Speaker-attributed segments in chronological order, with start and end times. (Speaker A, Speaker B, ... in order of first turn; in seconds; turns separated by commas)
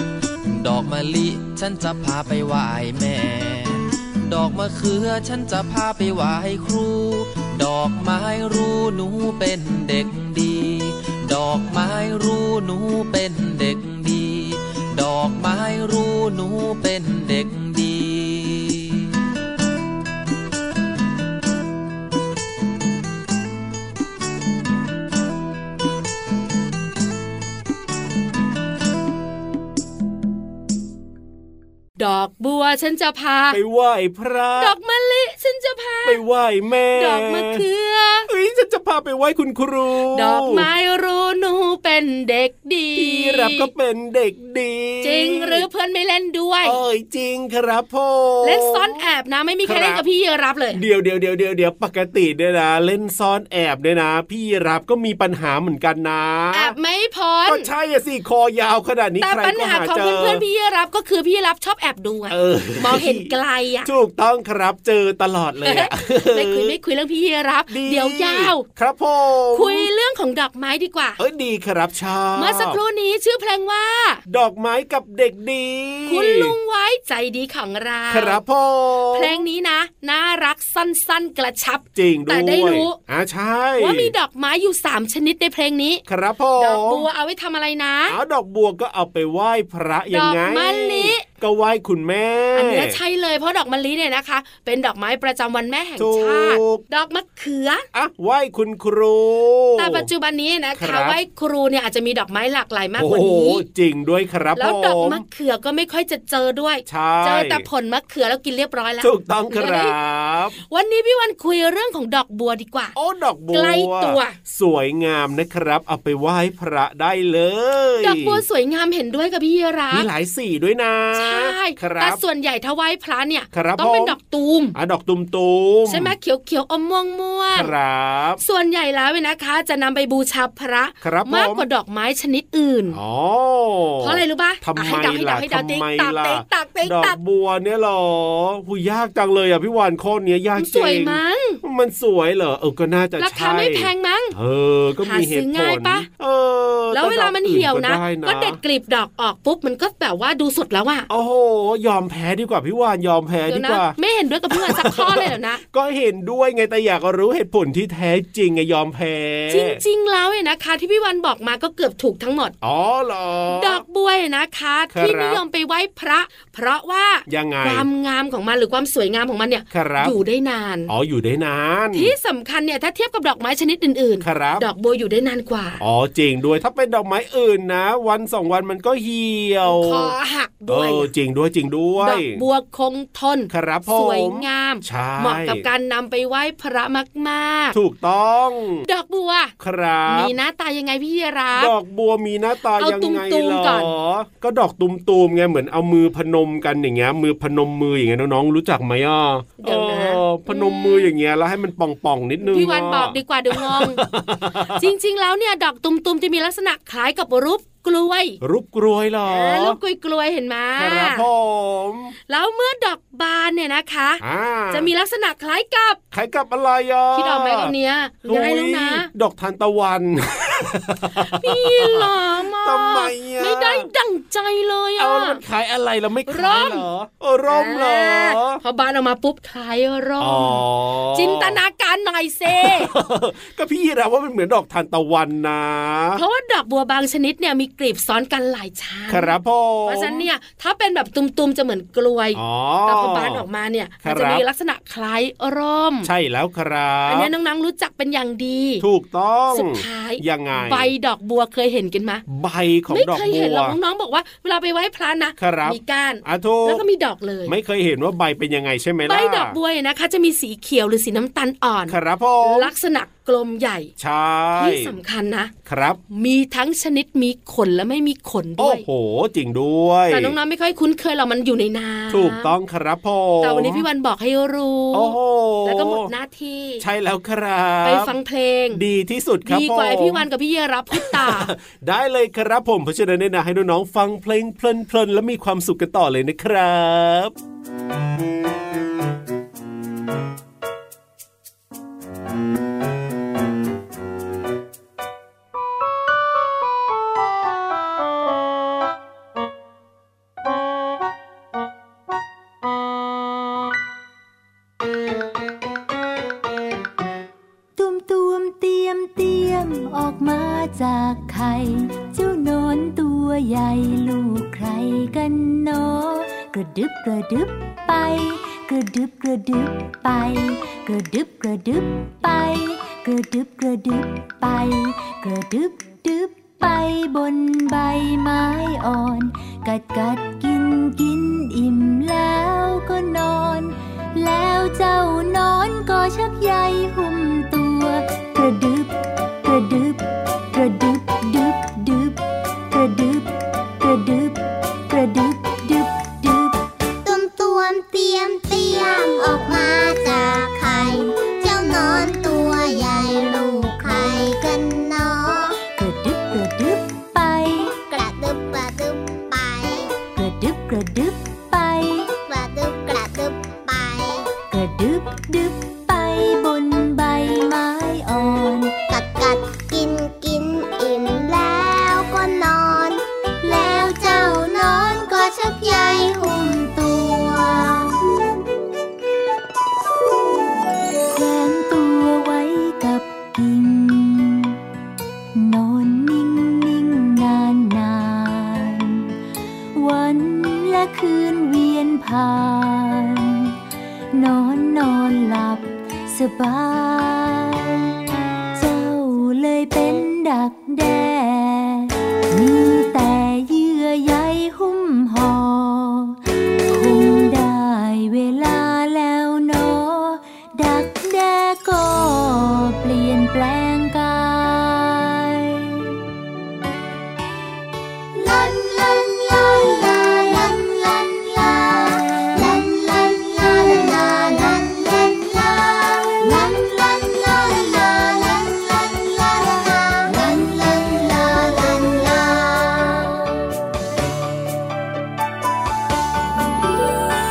Speaker A: 0.5-19.1, Speaker B: 32.0-33.6, Speaker C: 33.5-34.7, Speaker B: 34.6-36.2, Speaker C: 36.0-37.6, Speaker B: 37.0-38.3, Speaker C: 38.3-40.7, Speaker B: 40.1-43.7, Speaker C: 42.9-45.6, Speaker B: 45.0-46.8, Speaker C: 46.6-49.0, Speaker B: 48.4-50.8, Speaker C: 49.6-50.0, Speaker C: 50.7-56.7, Speaker B: 56.5-57.7, Speaker C: 57.5-60.4, Speaker B: 59.2-63.9, Speaker C: 62.3-63.3, Speaker C: 63.8-66.7, Speaker B: 65.6-68.6, Speaker C: 67.7-69.9, Speaker B: 69.5-71.2, Speaker C: 71.2-72.8, Speaker B: 72.4-74.2, Speaker C: 74.3-76.5, Speaker B: 76.1-78.4, Speaker C: 78.1-79.4, Speaker B: 79.1-83.0, Speaker C: 81.9-84.1, Speaker B: 83.8-86.0, Speaker C: 86.1-87.1, Speaker B: 86.6-88.2, Speaker C: 88.1-93.0, Speaker B: 90.1-91.2, Speaker B: 92.5-97.8, Speaker C: 96.0-96.8, Speaker C: 97.9-100.1, Speaker B: 99.8-103.6, Speaker C: 100.8-101.2, Speaker C: 103.0-105.2, Speaker B: 104.5-109.9, Speaker C: 106.8-107.7, Speaker C: 109.0-110.6, Speaker B: 110.7-112.9, Speaker C: 112.9-118.4, Speaker B: 113.5-114.3, Speaker B: 118.0-120.0, Speaker C: 119.9-122.2, Speaker B: 121.1-124.7, Speaker C: 123.5-124.2, Speaker C: 124.7-126.1, Speaker B: 125.9-127.7, Speaker C: 127.5-128.4, Speaker B: 128.4-133.0, Speaker C: 131.0-131.6, Speaker C: 132.9-148.6, Speaker B: 134.0-137.2, Speaker B: 140.6-141.6, Speaker B: 143.2-144.3, Speaker B: 145.0-146.1, Speaker B: 146.9-151.1, Speaker C: 151.1-153.9, Speaker B: 153.5-155.6, Speaker C: 154.5-159.8, Speaker B: 159.5-162.5, Speaker C: 162.6-163.8, Speaker B: 163.5-170.9, Speaker C: 164.9-165.4, Speaker C: 167.3-167.9, Speaker C: 169.7-170.2, Speaker C: 170.9-172.1, Speaker B: 171.9-175.8, Speaker C: 174.2-174.7, Speaker C: 175.8-180.1, Speaker B: 179.6-181.1, Speaker C: 180.7-182.4, Speaker B: 182.0-187.8, Speaker C: 183.5-185.6, Speaker C: 187.7-188.8, Speaker B: 188.8-189.5, Speaker C: 189.6-190.3, Speaker B: 190.1-191.7, Speaker C: 191.5-204.9, Speaker B: 192.8-193.9, Speaker B: 199.6-201.1, Speaker B: 202.4-204.0, Speaker B: 204.7-208.4, Speaker C: 208.4-209.8, Speaker B: 209.2-211.2, Speaker C: 210.8-212.1, Speaker B: 212.3-216.0, Speaker C: 214.2-214.9, Speaker C: 216.1-217.7, Speaker B: 217.1-219.1, Speaker C: 218.2-223.9, Speaker B: 221.2-225.4, Speaker C: 225.0-228.6, Speaker B: 226.3-226.8, Speaker B: 227.5-230.6, Speaker C: 230.2-231.6, Speaker B: 231.1-232.9, Speaker C: 232.5-236.2, Speaker B: 236.2-246.1, Speaker C: 239.1-240.3, Speaker C: 242.3-243.4, Speaker C: 244.0-244.4, Speaker C: 246.0-247.3, Speaker B: 247.1-248.8, Speaker C: 248.8-250.9, Speaker B: 249.5-252.2, Speaker C: 252.3-253.8, Speaker B: 252.9-257.5, Speaker C: 255.4-256.8, Speaker C: 257.4-259.6, Speaker B: 259.1-263.9, Speaker C: 261.9-262.7, Speaker C: 264.0-264.9, Speaker B: 264.6-265.5, Speaker C: 265.6-266.0, Speaker B: 266.1-268.8, Speaker C: 268.6-270.3, Speaker B: 270.1-272.5, Speaker C: 272.1-273.8, Speaker B: 273.4-276.8, Speaker C: 274.9-276.1, Speaker C: 276.8-278.1, Speaker B: 277.8-278.8, Speaker C: 278.7-280.2, Speaker B: 279.4-281.5, Speaker C: 280.9-287.3, Speaker D: 307.8-346.6, Speaker E: 347.0-355.6, Speaker D: 350.6-351.0, Speaker D: 351.6-354.1, Speaker D: 355.8-357.7, Speaker E: 357.9-359.9, Speaker D: 360.1-362.1, Speaker E: 362.3-364.3, Speaker D: 364.5-368.7, Speaker E: 368.9-377.9, Speaker D: 381.1-384.6, Speaker D: 385.3-389.1, Speaker D: 389.7-393.6, Speaker D: 394.1-397.8, Speaker D: 398.5-415.9, Speaker E: 418.1-433.2, Speaker D: 430.1-430.6